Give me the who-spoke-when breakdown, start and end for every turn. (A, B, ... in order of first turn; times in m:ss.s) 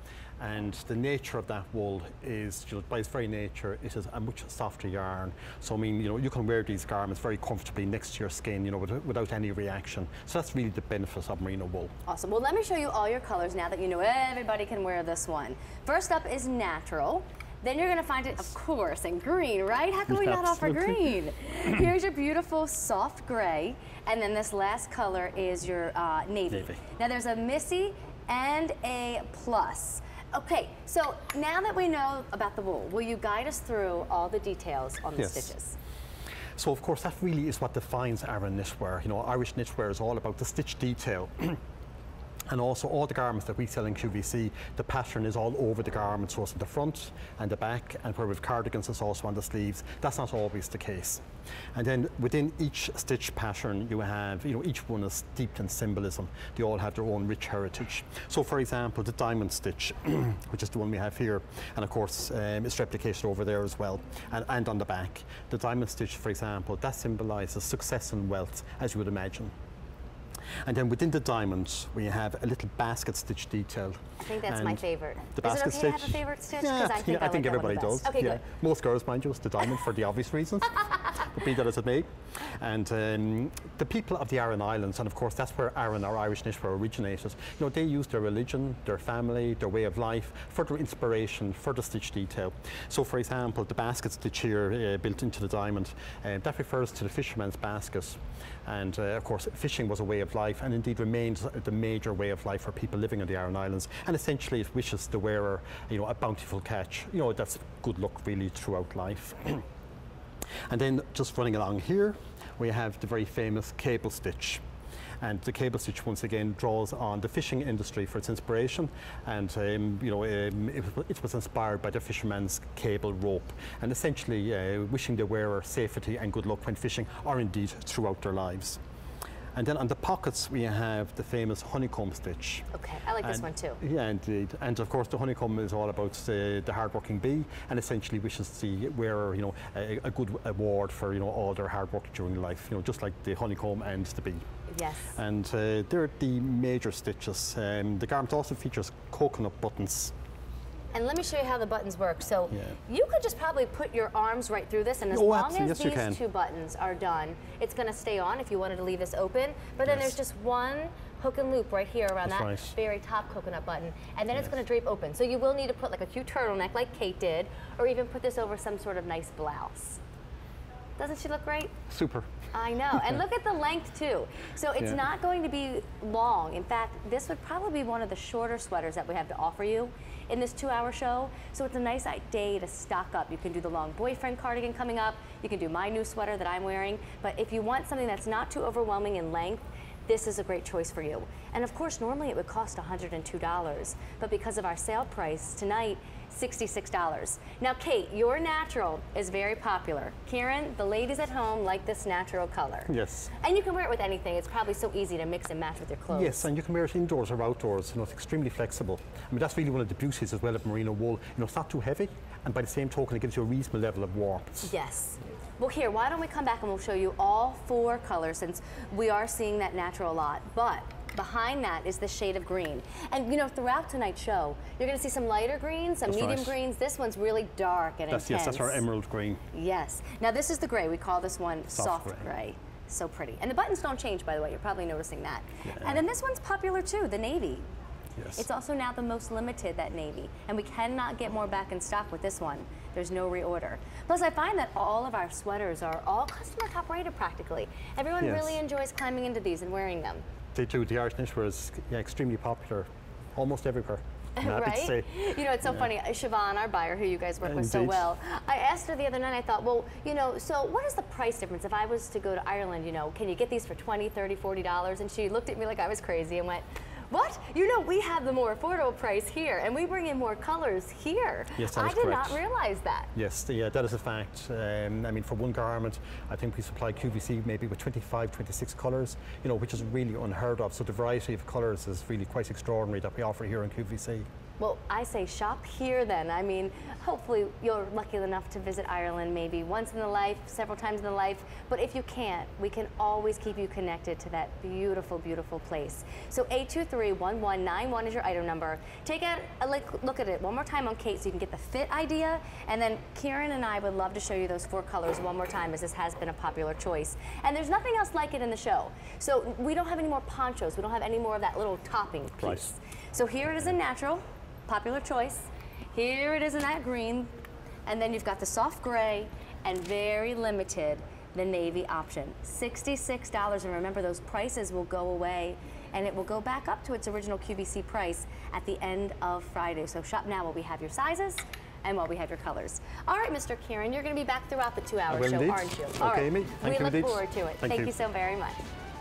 0:00.4-0:11.9 A
0:12.1-0:35.8 B
0:20.1-0:21.0 A
0:35.2-0:35.5 A
0:36.6-0:41.6 A
0:42.5-0:51.2 A
0:51.8-1:09.5 A
1:10.7-1:49.6 A
1:14.2-1:18.4 B
1:50.7-1:54.6 A
1:55.2-2:08.8 A
2:09.6-2:12.7 A
2:12.7-2:13.8 B
2:13.2-2:24.4 A
2:24.7-2:25.2 B
2:25.1-2:30.1 A
2:30.9-2:50.0 B
2:35.1-2:36.2 A
2:39.9-2:40.2 A
2:42.2-2:42.8 A
2:51.0-2:51.8 B
2:51.9-2:52.3 A
2:52.5-3:26.5 B
2:52.9-2:53.2 A
3:22.9-3:23.3 A
3:26.1-3:34.7 A
3:34.6-3:48.8 B
3:46.1-3:46.6 A
3:48.1-3:49.4 A
3:49.5-3:57.6 B
3:51.7-3:52.3 A
3:55.6-3:56.0 A
3:58.2-3:58.4 A
3:58.4-4:10.2 B
4:08.2-4:08.6 A
4:10.5-4:15.1 A
4:14.4-4:33.1 B
4:17.4-4:18.0 A
4:31.6-4:32.4 A
4:33.2-4:44.3 A
4:44.6-5:17.3 B
5:12.4-5:12.7 A
5:17.9-5:38.6 B
5:35.1-5:37.9 A